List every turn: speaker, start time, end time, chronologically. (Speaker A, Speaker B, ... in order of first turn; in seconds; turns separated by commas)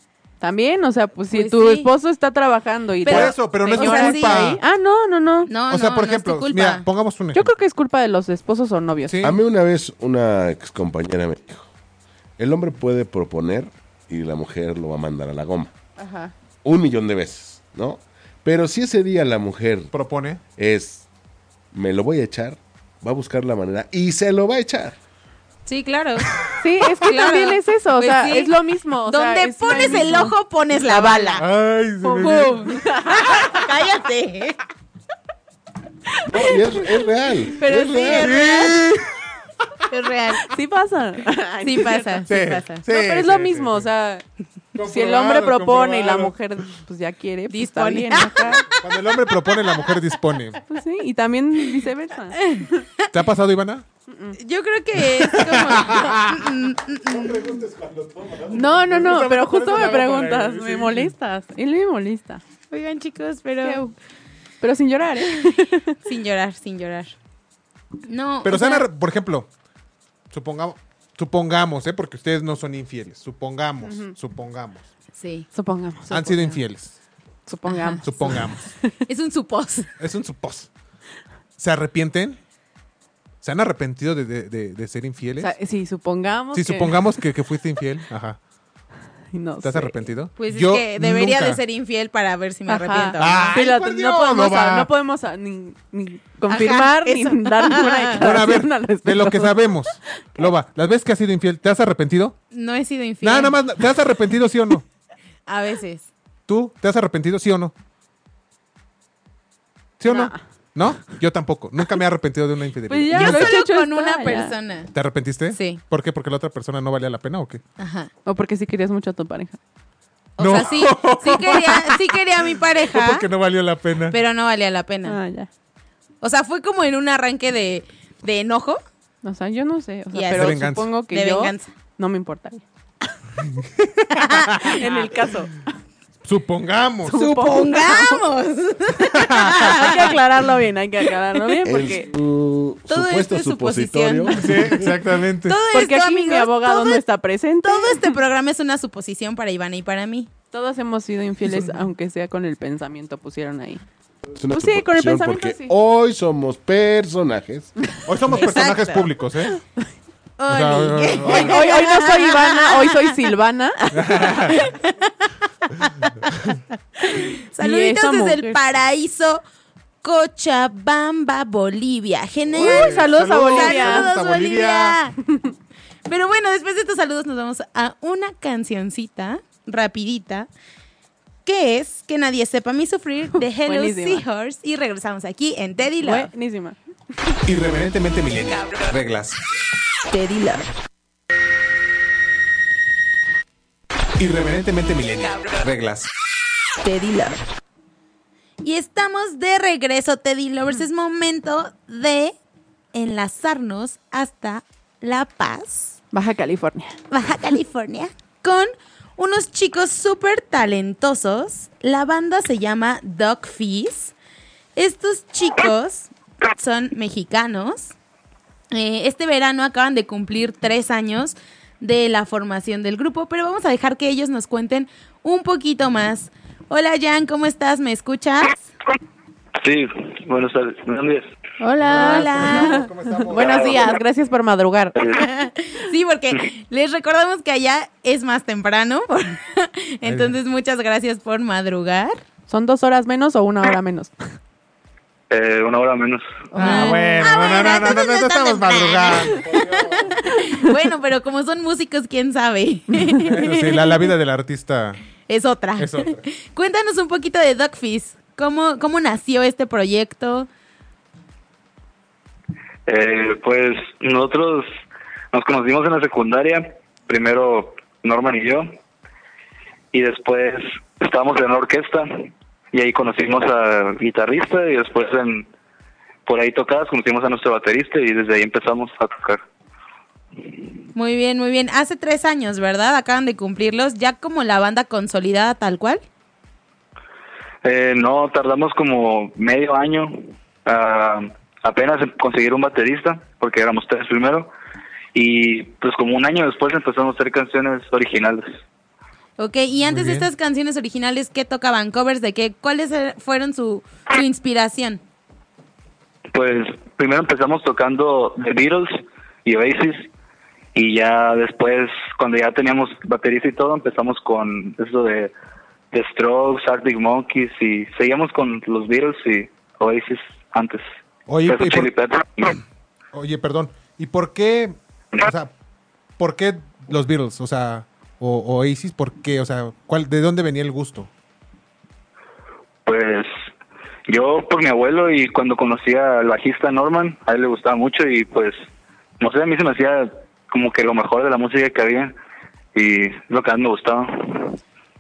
Speaker A: 0.4-5.5, Speaker B: 1.3-1.9, Speaker B: 3.0-4.6, Speaker C: 3.1-4.6, Speaker B: 5.5-6.8, Speaker C: 5.7-7.5, Speaker A: 7.3-9.2, Speaker C: 9.1-9.4, Speaker D: 9.2-11.7, Speaker D: 12.4-15.7, Speaker A: 16.0-16.3, Speaker D: 16.6-19.9, Speaker C: 19.9-20.4, Speaker D: 20.6-21.1, Speaker D: 21.7-25.0, Speaker B: 25.7-28.6, Speaker A: 26.6-30.3, Speaker B: 29.1-31.4, Speaker A: 30.9-31.4, Speaker C: 31.4-33.5, Speaker A: 32.0-33.6, Speaker B: 32.2-34.6, Speaker A: 36.1-36.5, Speaker D: 36.3-38.3, Speaker A: 37.6-38.4, Speaker B: 37.6-38.8, Speaker C: 38.2-39.1, Speaker B: 39.9-40.5, Speaker A: 40.4-42.3, Speaker B: 41.6-42.8, Speaker C: 42.3-43.9, Speaker A: 42.9-44.2, Speaker C: 44.8-46.3, Speaker A: 44.8-48.7, Speaker B: 47.5-48.8, Speaker C: 48.7-50.6, Speaker A: 50.7-52.8, Speaker B: 52.3-53.1, Speaker C: 53.1-53.9, Speaker A: 54.1-54.4, Speaker B: 54.4-57.5, Speaker C: 55.0-56.5, Speaker C: 57.1-61.1, Speaker A: 58.5-62.4, Speaker B: 62.7-63.9, Speaker A: 63.6-63.9, Speaker A: 64.6-66.0, Speaker B: 66.0-67.1, Speaker B: 68.1-68.8, Speaker C: 68.4-69.5, Speaker C: 70.3-74.9, Speaker A: 73.8-74.1, Speaker B: 75.2-75.5, Speaker A: 75.5-76.6, Speaker C: 76.1-77.0, Speaker A: 77.5-78.9, Speaker B: 77.7-78.0, Speaker C: 78.0-78.7, Speaker B: 79.1-79.9, Speaker C: 80.0-80.7, Speaker C: 81.6-82.4, Speaker C: 83.4-85.5, Speaker A: 85.4-87.1, Speaker C: 86.5-88.4, Speaker A: 89.3-90.1, Speaker C: 89.6-91.6, Speaker B: 90.4-93.5, Speaker A: 92.7-99.7, Speaker C: 93.2-94.9, Speaker B: 96.5-98.3, Speaker C: 98.2-102.4, Speaker B: 102.5-103.6, Speaker C: 103.2-104.8, Speaker B: 105.5-106.1, Speaker C: 106.5-107.7, Speaker C: 110.0-113.6, Speaker A: 110.1-110.4, Speaker A: 112.9-114.5, Speaker B: 113.1-114.9, Speaker C: 114.9-117.6, Speaker B: 115.5-115.8, Speaker B: 117.8-118.1, Speaker A: 118.3-119.6, Speaker B: 120.4-123.3, Speaker C: 120.4-122.2, Speaker C: 122.9-124.2, Speaker B: 124.1-125.2, Speaker A: 125.0-125.5, Speaker B: 126.2-128.8, Speaker A: 129.2-132.6, Speaker B: 130.1-131.7, Speaker C: 130.3-130.9, Speaker C: 133.4-134.8, Speaker B: 134.1-135.2, Speaker A: 134.7-135.6, Speaker C: 136.2-137.2, Speaker A: 137.1-138.2, Speaker B: 137.1-140.2, Speaker C: 139.0-139.8, Speaker A: 139.6-142.1, Speaker D: 141.6-144.9, Speaker B: 142.9-144.8, Speaker C: 144.3-145.6, Speaker B: 145.5-147.0, Speaker A: 145.7-148.1, Speaker B: 147.7-150.3, Speaker A: 150.5-153.8, Speaker D: 154.3-157.7, Speaker A: 154.5-155.7, Speaker C: 158.1-159.6, Speaker B: 158.3-159.1, Speaker B: 160.4-163.1, Speaker C: 160.5-161.6, Speaker A: 161.2-164.3, Speaker C: 163.9-164.6, Speaker B: 164.4-165.3, Speaker B: 167.0-169.4, Speaker A: 167.6-168.6, Speaker B: 170.0-175.2, Speaker C: 172.5-175.0, Speaker A: 172.6-174.1, Speaker B: 176.1-180.5, Speaker B: 181.4-186.3, Speaker A: 183.7-184.2, Speaker A: 186.0-186.8, Speaker C: 187.4-189.4, Speaker B: 190.1-190.7, Speaker C: 194.2-196.1, Speaker B: 196.8-197.4, Speaker B: 198.6-202.3, Speaker B: 202.9-206.0, Speaker A: 206.1-207.0, Speaker B: 207.1-214.1, Speaker B: 214.8-217.9, Speaker B: 218.7-228.6, Speaker E: 229.6-231.3, Speaker A: 231.6-235.0, Speaker C: 231.8-233.8, Speaker B: 231.8-232.9, Speaker E: 233.4-233.9, Speaker E: 235.0-235.2, Speaker B: 235.1-242.2, Speaker C: 240.0-240.4, Speaker A: 242.5-244.1, Speaker E: 245.3-246.3, Speaker A: 246.6-247.3, Speaker C: 246.6-250.1, Speaker B: 246.6-253.9, Speaker C: 253.2-255.0, Speaker B: 255.3-260.5, Speaker C: 255.8-256.2, Speaker E: 262.9-264.7, Speaker E: 265.3-268.7, Speaker E: 269.9-275.5, Speaker E: 276.3-279.4, Speaker B: 280.9-286.0, Speaker E: 287.6-294.5, Speaker E: 295.1-298.5, Speaker B: 299.4-305.0, Speaker C: 299.9-300.3, Speaker E: 306.3-310.1, Speaker E: 310.8-315.3, Speaker E: 315.9-320.9, Speaker C: 321.3-321.9, Speaker E: 321.5-322.6, Speaker C: 323.1-325.5, Speaker C: 326.2-331.1, Speaker E: 332.9-333.3, Speaker E: 334.1-338.6, Speaker E: 339.2-342.1, Speaker E: 342.7-344.6